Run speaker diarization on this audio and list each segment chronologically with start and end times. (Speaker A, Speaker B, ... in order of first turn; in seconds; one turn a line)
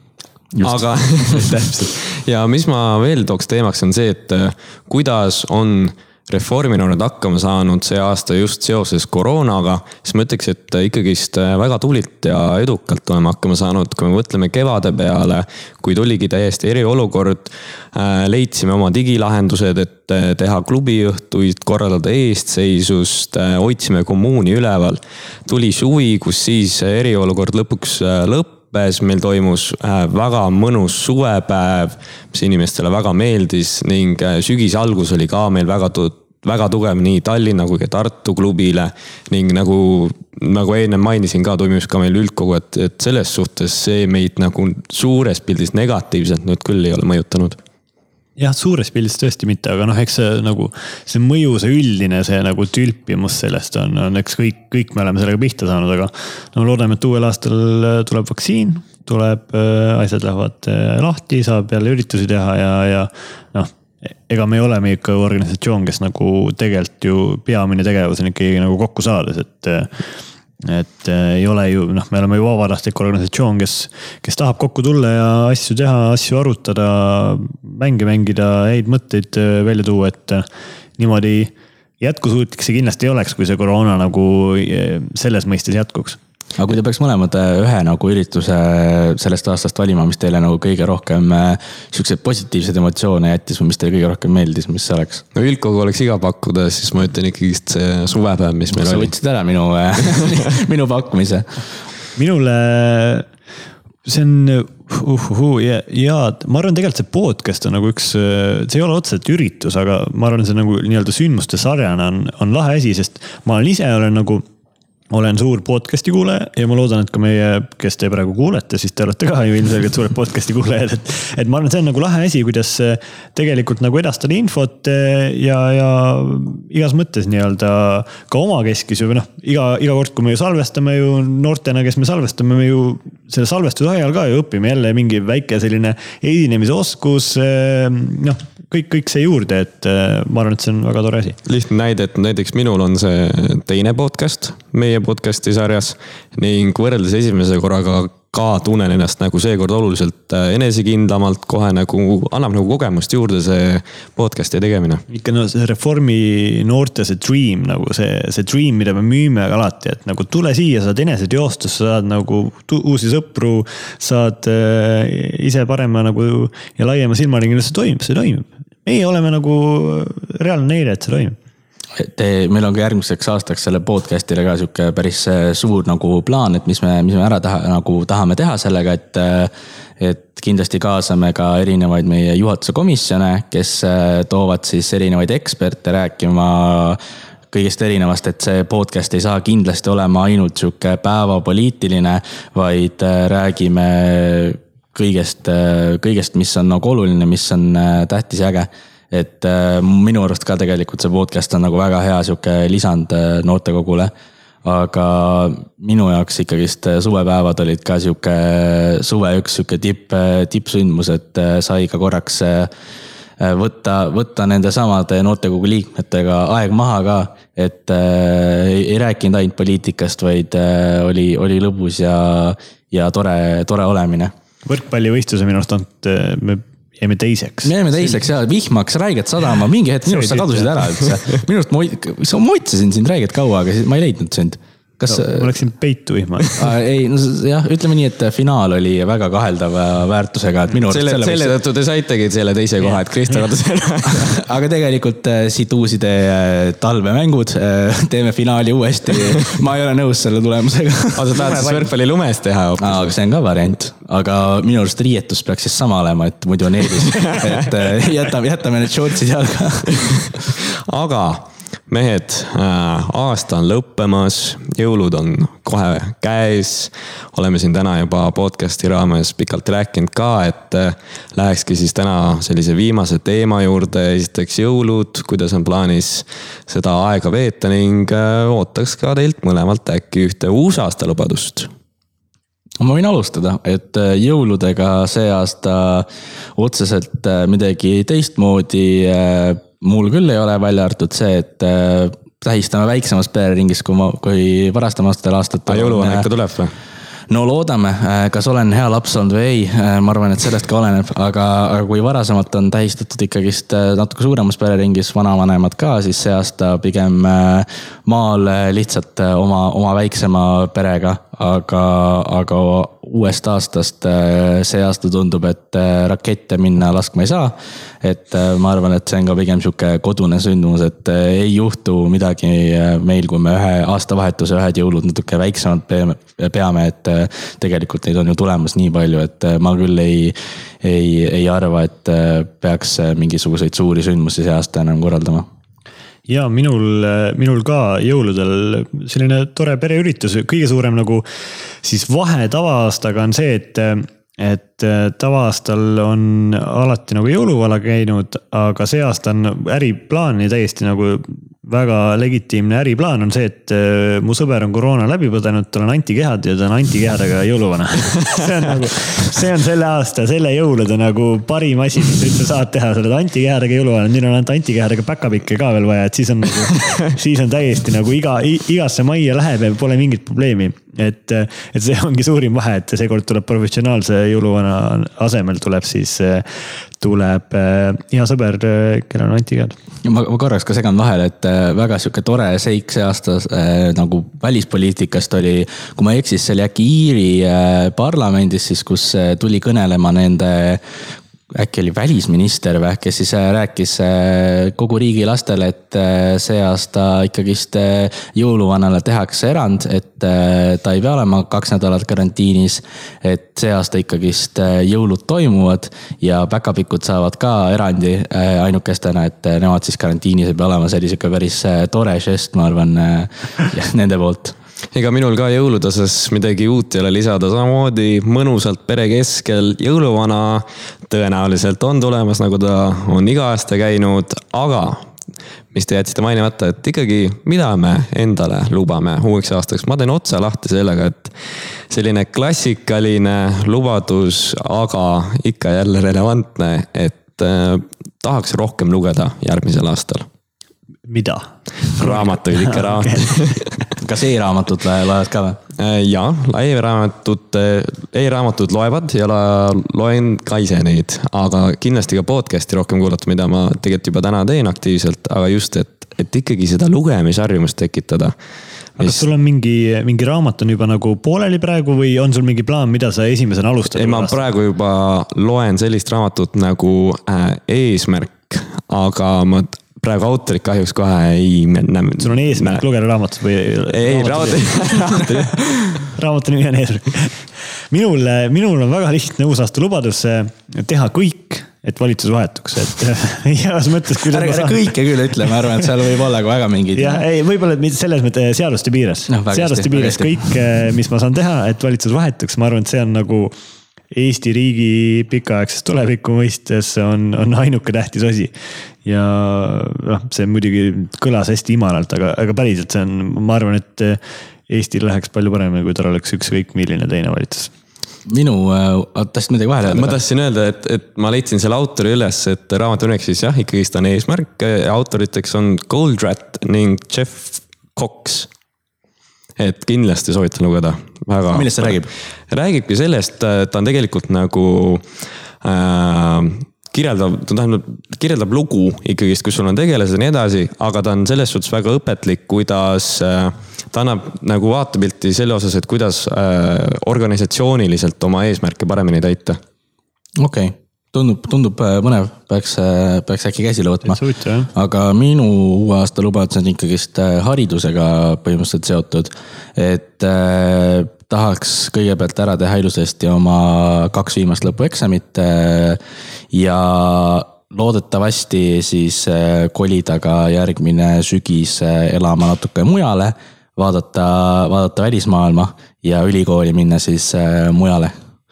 Speaker A: 0.6-47.6
Speaker B: 48.4-63.7
Speaker B: 64.3-70.0
Speaker B: 70.6-80.5
Speaker B: 81.0-86.2
Speaker C: 86.6-95.2
Speaker A: 95.3-99.1
Speaker C: 98.7-101.6
Speaker B: 102.2-103.3
Speaker B: 104.1-114.4
Speaker B: 115.1-141.4
Speaker A: 141.5-155.0
Speaker B: 155.1-171.4
Speaker C: 172.0-187.0
Speaker C: 187.5-204.1
Speaker C: 204.6-212.7
Speaker C: 213.4-224.3
Speaker B: 224.7-228.2
Speaker C: 227.6-235.5
Speaker B: 230.1-230.7
Speaker B: 235.1-236.6
Speaker C: 236.6-241.6
Speaker A: 240.9-244.4
Speaker C: 244.1-251.7
Speaker A: 251.2-253.1
Speaker B: 251.5-251.8
Speaker C: 252.8-260.2
Speaker A: 257.3-257.7
Speaker A: 260.5-281.7
Speaker C: 282.8-296.3
Speaker A: 295.7-296.7
Speaker C: 297.3-335.5
Speaker B: 336.3-341.3
Speaker B: 341.8-379.8
Speaker C: 380.0-390.8
Speaker C: 391.5-414.6
Speaker A: 414.9-425.1
Speaker A: 425.7-431.3
Speaker A: 431.9-440.3
Speaker B: 441.1-443.7
Speaker A: 442.0-443.7
Speaker C: 444.0-445.6
Speaker A: 445.8-458.4
Speaker B: 459.0-464.4
Speaker A: 463.9-472.8
Speaker B: 472.2-475.4
Speaker A: 473.9-476.0
Speaker B: 476.0-484.9
Speaker C: 484.3-487.2
Speaker B: 486.9-493.5
Speaker C: 489.3-490.5
Speaker B: 494.1-498.5
Speaker B: 499.0-507.7
Speaker C: 508.3-510.2
Speaker A: 509.9-518.5
Speaker A: 519.6-525.0
Speaker C: 521.5-522.1
Speaker A: 525.6-539.6
Speaker C: 540.4-544.2
Speaker B: 544.0-544.7
Speaker C: 544.7-556.0
Speaker C: 556.5-568.1